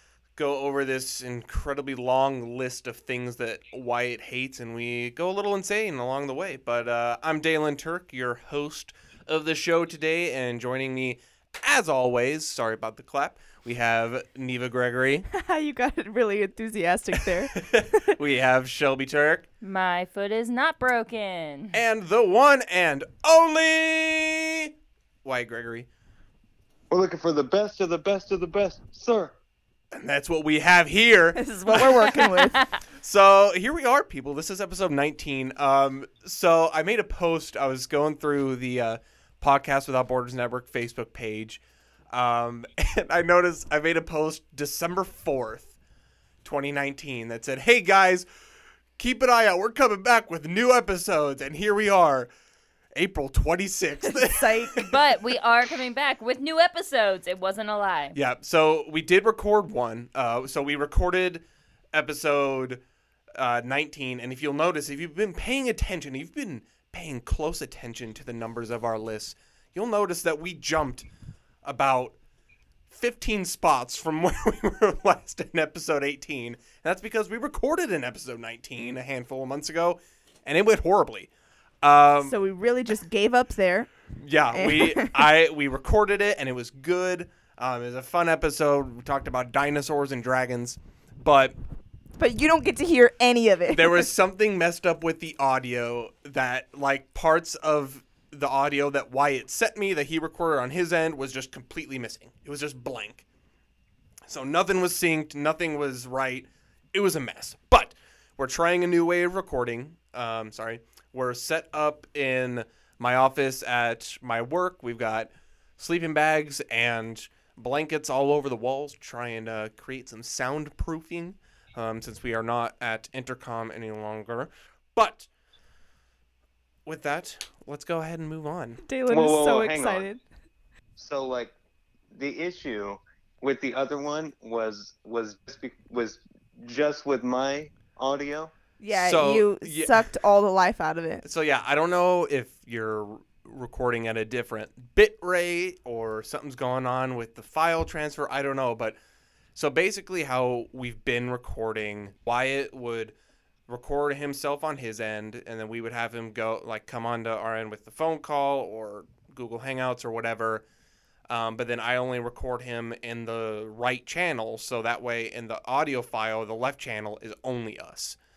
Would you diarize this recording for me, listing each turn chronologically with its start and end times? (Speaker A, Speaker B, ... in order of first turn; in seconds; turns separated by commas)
Speaker A: 0.3-15.3, Speaker B: 15.3-18.1, Speaker A: 17.2-19.4, Speaker C: 19.6-21.8, Speaker A: 21.7-24.7, Speaker A: 25.2-25.9, Speaker D: 26.9-29.3, Speaker A: 29.9-32.4, Speaker B: 31.3-32.6, Speaker C: 32.5-32.8, Speaker A: 33.0-41.6, Speaker A: 42.1-45.7, Speaker A: 46.4-48.2, Speaker A: 49.0-52.3, Speaker A: 52.9-54.9, Speaker B: 54.0-54.9, Speaker C: 54.8-58.1, Speaker A: 58.1-62.8, Speaker A: 63.4-71.0, Speaker A: 71.6-72.1, Speaker A: 72.9-81.3, Speaker A: 81.8-82.4, Speaker B: 82.2-83.9, Speaker A: 84.2-91.5, Speaker B: 84.5-85.3, Speaker B: 92.2-94.1, Speaker A: 93.7-103.2, Speaker A: 104.3-125.3, Speaker A: 126.8-128.8, Speaker B: 128.8-130.2, Speaker D: 129.1-130.1, Speaker D: 130.9-131.5, Speaker D: 132.1-138.5, Speaker B: 138.8-141.2, Speaker A: 138.9-140.1, Speaker A: 141.2-148.9, Speaker A: 149.5-153.1, Speaker A: 153.7-160.6, Speaker A: 161.3-168.2